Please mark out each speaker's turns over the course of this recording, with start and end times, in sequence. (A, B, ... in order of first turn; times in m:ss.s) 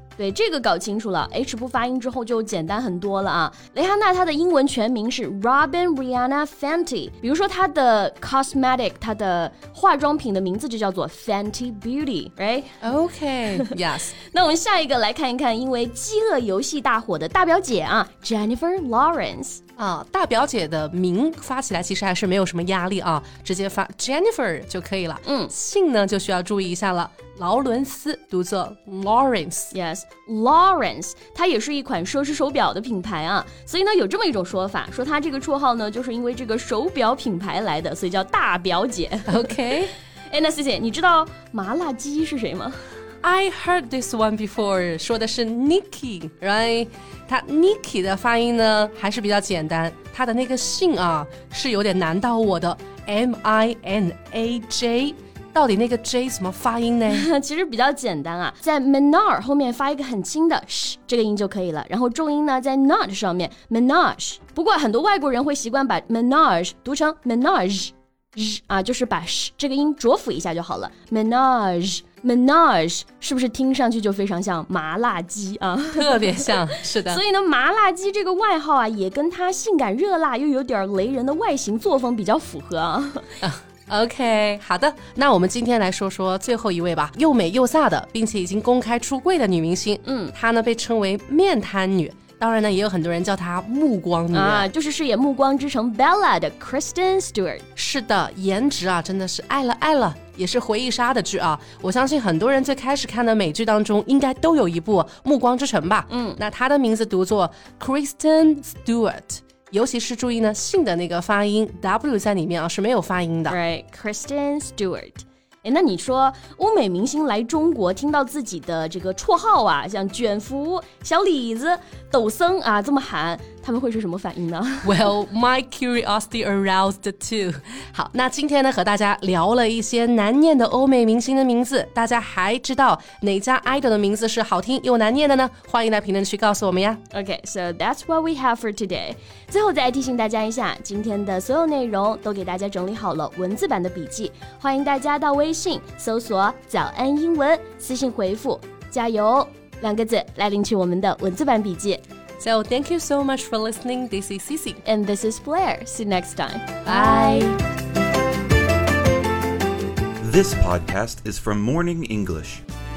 0:00.2-0:12.8 A
0:12.8-0:14.2 B
0:14.3-0:19.6 A
0:19.8-0:29.7 B
0:25.2-0:25.5 A
0:29.7-0:39.5 A
0:39.3-0:39.9 B
0:40.3-0:42.8 A
0:43.2-0:57.3 B
0:57.1-1:23.3 A
1:16.0-1:17.2 B
1:23.4-1:34.7 B
1:30.0-1:30.3 A
1:34.3-1:37.7 A
1:37.8-1:53.6 B
1:46.1-1:46.4 A
1:53.5-2:05.0 A
2:04.8-2:17.0 B
2:17.1-2:32.0 A
2:32.4-2:34.8 B
2:34.8-2:37.6 A
2:36.8-2:37.6 B
2:40.2-2:42.6 C